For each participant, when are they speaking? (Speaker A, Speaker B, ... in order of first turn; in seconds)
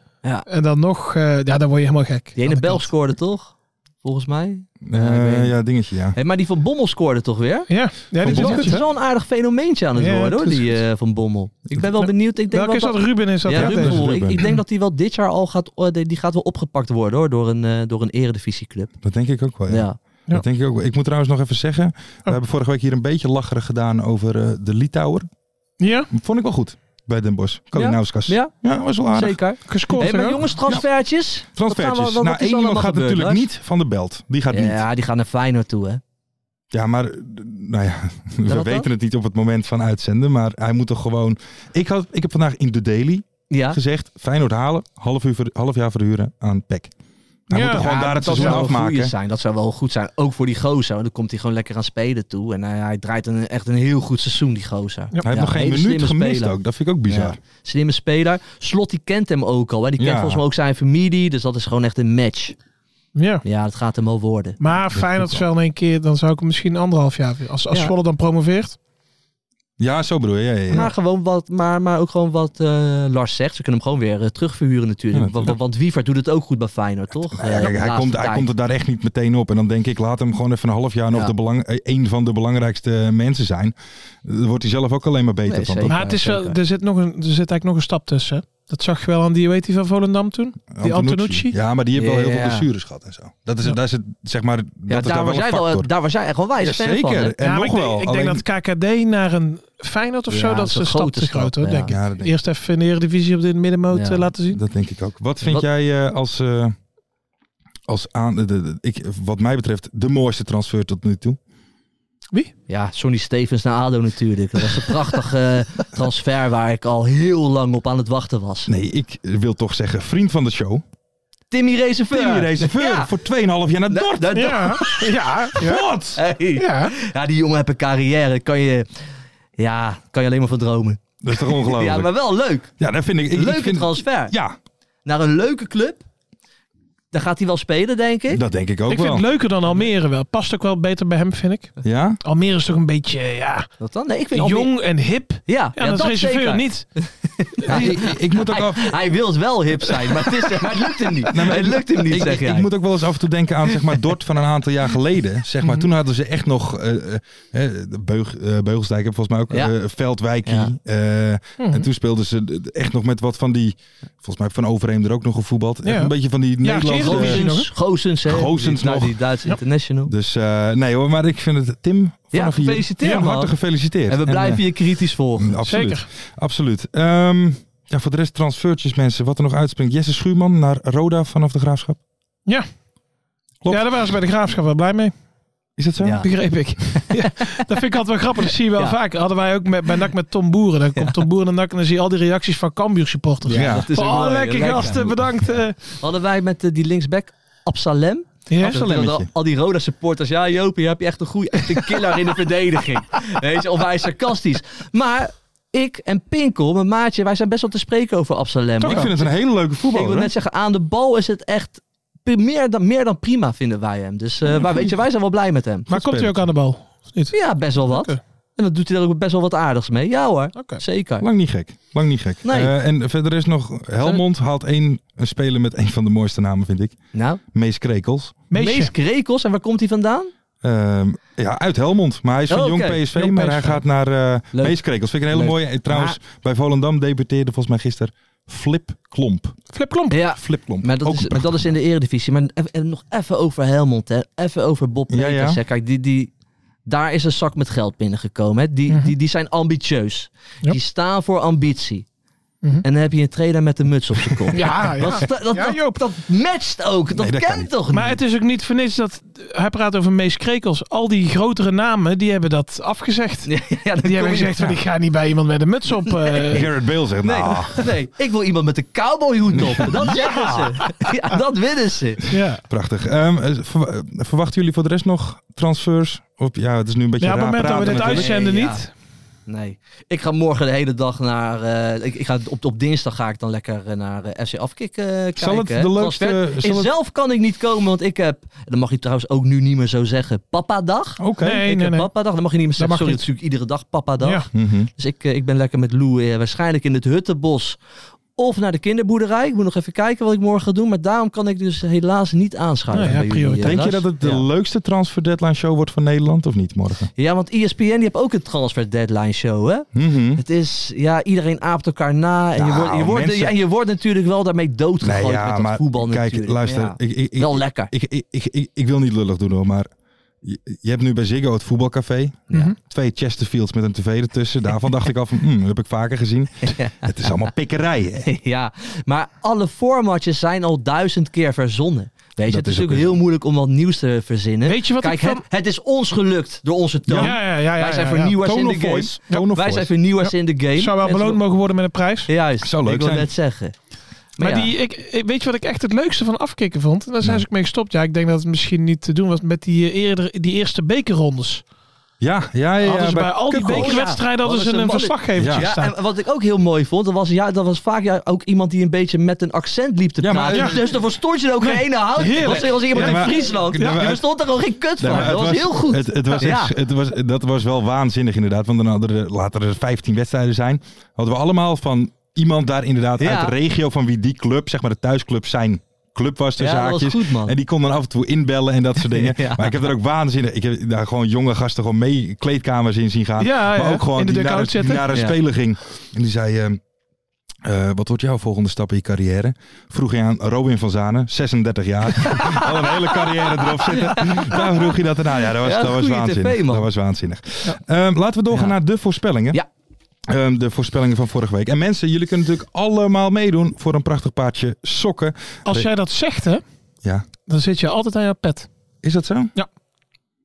Speaker A: 0.5-2.9, 7.7-8.8, 10.0-10.8, 12.5-14.6, 25.8-26.1, 29.6-30.4, 47.5-48.6, 63.1-63.4, 64.6-68.8, 85.9-91.5, 97.4-104.6, 124.3-125.8, 126.6-126.9, 138.9-143.7, 144.3-146.9, 155.6-155.9, 161.6-161.9, 165.8-167.7, 175.7-176.0, 183.7-185.1, 186.2-195.8, 198.5-198.8, 208.8-209.1, 215.9-218.2, 220.6-220.8, 228.5-228.9, 233.3-233.7, 239.7-240.2, 254.5-256.0, 257.9-266.7, 272.3-272.6, 277.2-278.9, 291.4-292.1, 292.8-293.2, 302.9-303.8, 334.6-335.4, 337.2-338.3, 340.2-342.3, 344.4-351.6, 352.8-355.9, 360.5-360.8, 361.6-364.1, 383.4-385.1, 405.6-406.6, 407.5-408.7
Speaker B: 2.3-5.5, 6.1-18.9, 19.7-20.0, 27.7-28.5, 29.1-33.4, 34.5-36.0, 38.5-38.9, 43.5-43.8, 47.6-56.5, 57.1-62.5, 63.4-64.6, 70.7-78.5, 85.5-86.6, 92.0-92.7, 94.9-97.3, 100.3-102.0, 103.9-104.3, 112.7-118.7, 121.5-123.1, 123.9-125.0, 126.2-128.9, 129.6-132.7, 133.3-134.3, 135.0-136.0, 137.1-138.4, 143.8-144.7, 145.4-152.7, 160.4-160.7, 166.9-170.1, 172.3-173.6, 174.1-175.5, 186.0-186.3, 186.9-187.6, 193.4-209.2, 209.9-215.9, 217.3-221.2, 222.4-222.7, 227.1-227.4, 228.5-230.3, 232.5-233.5, 234.5-236.2, 240.1-246.3, 246.8-252.1, 252.8-258.2, 263.4-264.7, 266.1-266.6, 267.2-272.2, 277.7-278.9, 279.5-297.8, 298.4-304.4, 307.2-317.9, 322.5-322.7, 328.2-341.4, 342.3-343.7, 344.4-344.7, 353.7-366.7, 373.2-373.5, 376.6-377.5, 379.1-379.7, 385.1-385.4, 392.1-394.9, 395.6-396.9
Speaker C: 4.8-6.2, 8.2-8.8, 13.5-14.4, 19.0-25.3, 26.1-29.4, 31.5-34.8, 36.7-46.9, 47.5-49.1, 55.2-57.4, 60.0-60.4, 64.9-65.5, 69.8-70.9, 75.1-75.6, 77.3-86.0, 90.7-95.9, 96.6-98.4, 101.9-102.3, 104.5-106.7, 107.9-111.4, 118.7-120.8, 122.1-124.8, 125.5-126.2, 131.2-132.1, 132.8-134.6, 138.3-139.2, 141.8-142.2, 147.7-149.0, 151.3-167.5, 168.2-169.2, 170.1-174.7, 175.4-182.0, 183.6-184.1, 185.8-186.3, 193.5-193.9, 194.6-195.2, 198.6-199.3, 208.8-210.3, 215.9-216.5, 221.2-227.0, 227.5-228.3, 230.6-239.6, 240.4-241.7, 245.1-245.6, 257.1-257.7, 266.5-267.9, 269.5-270.6, 272.3-278.3, 285.4-286.9, 291.2-291.6, 294.5-294.9, 303.6-307.1, 309.9-310.4, 312.6-313.6, 315.0-319.9, 320.4-328.3, 332.5-333.1, 337.1-337.4, 338.4-339.9, 342.6-343.3, 352.2-353.9, 355.4-355.7, 360.2-360.8, 362.9-364.2, 365.0-386.8, 387.6-399.6, 400.3-405.9, 409.0-409.5